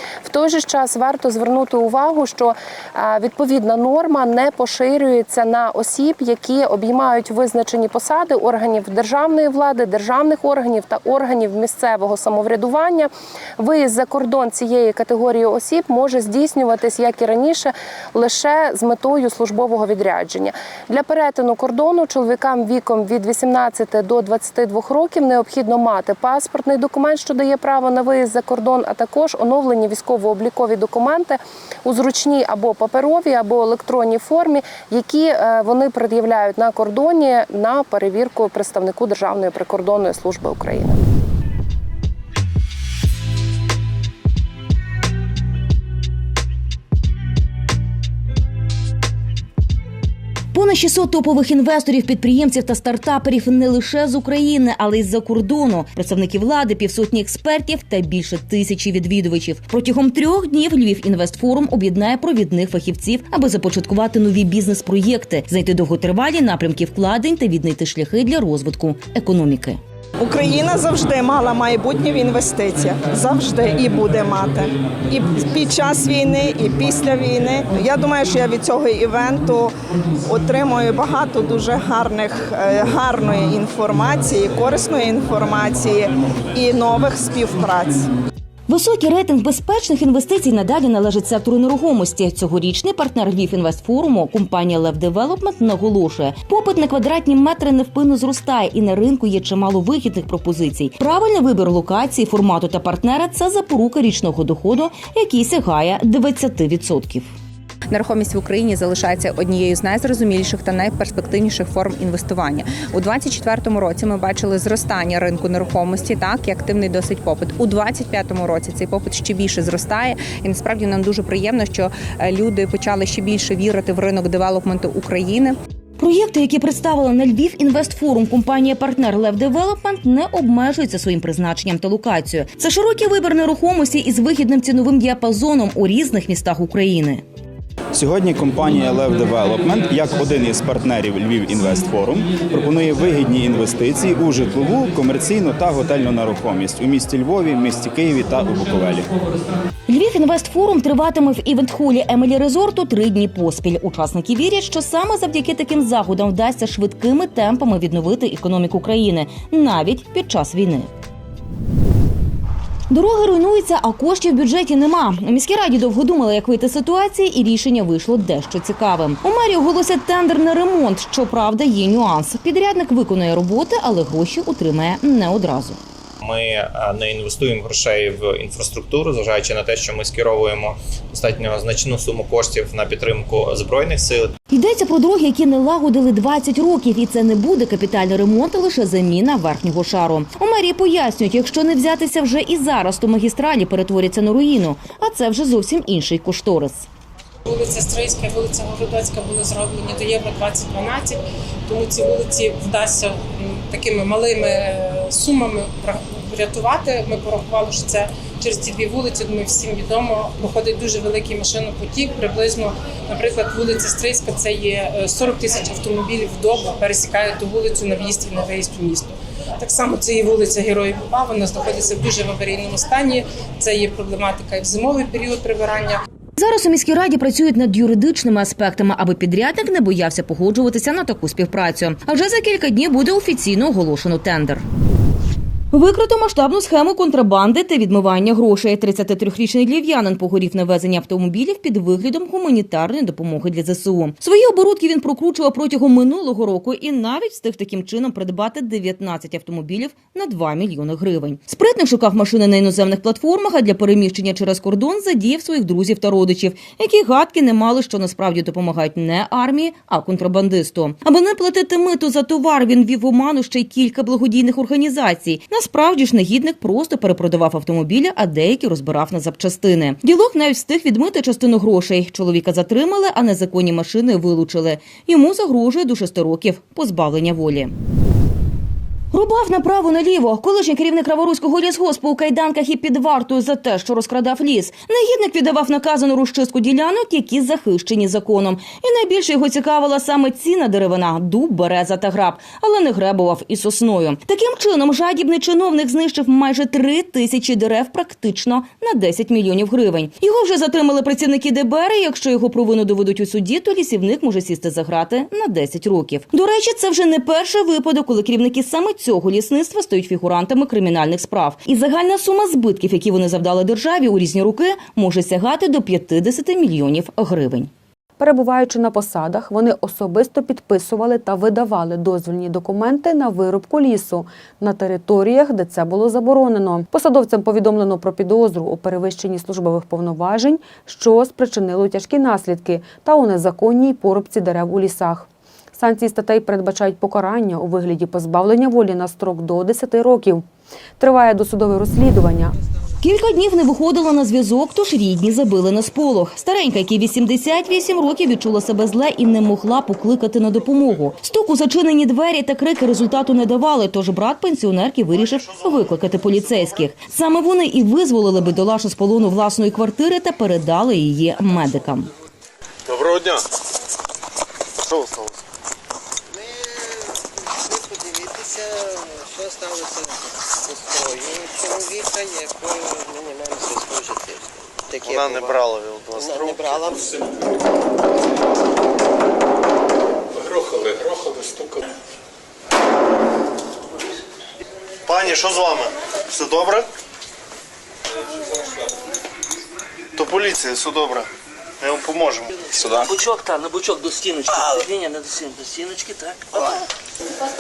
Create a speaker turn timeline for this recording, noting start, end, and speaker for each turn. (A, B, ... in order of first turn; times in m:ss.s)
0:00.2-0:41.0 A
0:50.5-1:09.8 B
1:10.2-1:19.7 C
1:20.2-1:28.1 C
1:28.7-1:47.3 B
1:47.9-2:05.6 D
2:06.0-2:17.2 B
2:17.9-2:29.2 E
2:29.9-2:40.9 B
2:42.9-2:55.8 B
2:56.2-3:04.3 F
3:04.5-3:16.9 B
3:17.5-3:46.0 G
3:46.4-3:54.6 B
3:55.7-4:37.7 B
4:39.1-5:17.7 B
5:18.2-5:40.4 H
5:41.0-5:42.6 H
5:43.0-6:02.1 B
5:55.4-5:55.7 I
6:02.9-6:03.4 I
6:04.9-6:05.4 I
6:07.7-6:10.1 J
6:10.7-6:15.5 J
6:15.0-6:16.9 I
6:16.3-6:17.0 J
6:20.4-6:21.7 I
6:25.1-6:26.9 I
6:30.2-6:31.3 I
6:31.8-6:32.5 I
6:32.7-6:36.6 K